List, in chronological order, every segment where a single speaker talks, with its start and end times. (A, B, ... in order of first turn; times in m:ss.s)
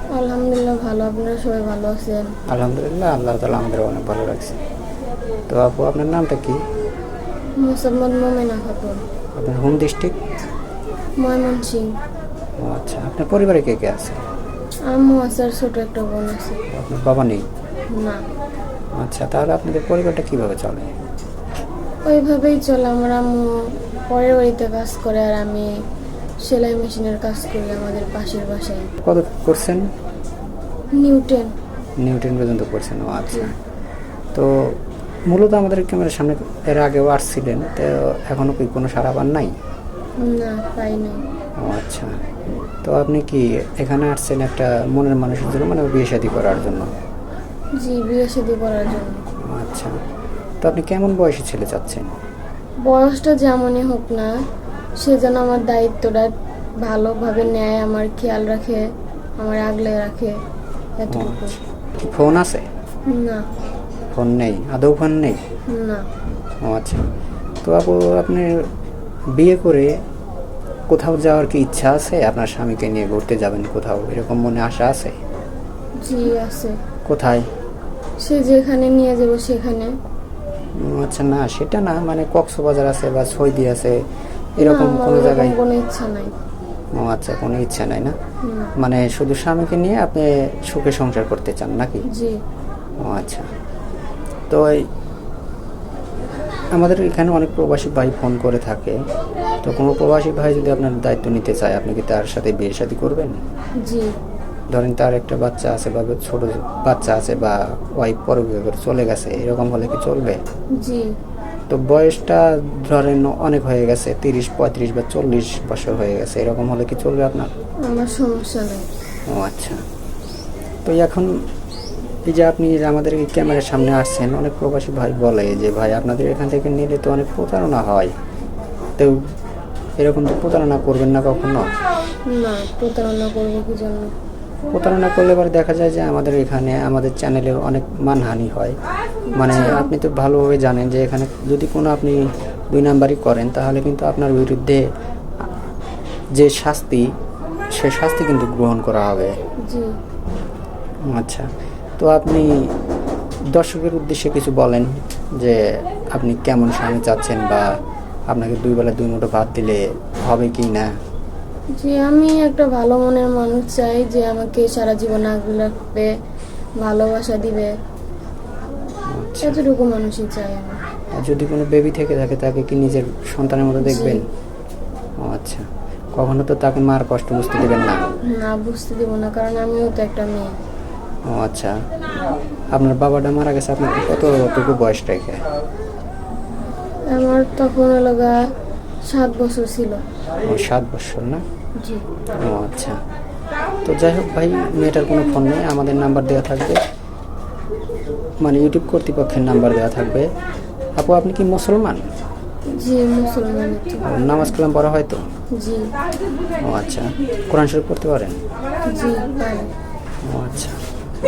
0:00.1-0:02.3 A
0:02.5-0:04.6 B
0:05.5-0:06.6 B
0:07.6-0:09.0 A
0:09.4-0:10.2 B
0:11.2-0:11.9 A
0:12.6-0:14.2 B
0:14.9-0:16.6 A
0:16.7-0:17.4 B
0:17.9-0:18.2 A
0:19.0-0:20.9 B
0:22.0-0:25.8 A
0:26.4-0:28.9 A
0:29.0-0:29.9 B
0:31.0-0:31.5 A
0:32.0-0:33.5 B
0:34.3-0:34.8 B
0:35.3-0:39.5 B
0:40.2-0:41.2 A
0:41.6-0:42.2 B
0:42.8-0:46.9 B
0:47.8-0:49.2 A
0:49.5-0:49.9 B
0:50.6-0:52.1 B
0:52.8-0:54.3 A
0:55.0-0:58.8 A
0:59.4-1:00.4 A
1:01.0-1:01.6 A
1:01.1-1:02.6 B
1:03.1-1:03.4 A
1:04.1-1:05.4 B
1:05.7-1:06.0 A
1:06.6-1:07.0 B
1:07.6-1:08.5 B
1:09.4-1:09.9 B
1:10.9-1:15.2 B
1:16.0-1:16.8 A
1:17.1-1:17.4 B
1:18.2-1:19.9 A
1:20.8-1:24.0 B
1:24.6-1:25.6 B
1:24.6-1:26.3 A
1:26.9-1:28.2 B
1:28.4-1:28.7 A
1:28.8-1:32.0 B
1:32.1-1:32.4 A
1:33.0-1:33.5 B
1:34.5-1:34.8 B
1:36.8-1:39.0 B
1:39.6-1:43.4 B
1:43.8-1:44.1 A
1:44.7-1:50.4 B
1:50.8-1:51.1 A
1:51.7-1:57.5 B
1:57.8-1:58.8 A
1:59.3-1:59.8 B
2:00.8-2:01.3 B
2:02.2-2:08.1 B
2:10.0-2:11.7 B
2:12.3-2:14.1 A
2:14.7-2:18.8 B
2:19.3-2:19.9 A
2:19.4-2:24.8 B
2:26.4-2:27.1 B
2:27.8-2:29.3 B
2:31.1-2:32.5 B
2:33.5-2:37.6 B
2:38.3-2:40.9 B
2:41.8-2:46.1 A
2:46.8-2:47.7 A
2:49.1-2:49.6 B
2:49.4-2:50.8 A
2:51.2-2:54.2 B
2:53.8-2:54.2 A
2:55.2-2:55.6 B
2:56.2-2:58.0 B
2:58.3-3:00.5 A
3:01.3-3:01.7 B
3:02.7-3:05.4 B
3:07.1-3:08.4 A
3:09.1-3:10.0 A
3:10.4-3:11.4 B
3:12.4-3:13.0 B
3:13.8-3:16.8 B
3:18.4-3:20.3 B
3:21.0-3:22.0 B
3:22.7-3:24.0 A
3:24.0-3:25.2 B
3:25.5-3:25.9 A
3:26.6-3:28.4 B
3:28.8-3:29.7 A
3:30.3-3:30.8 B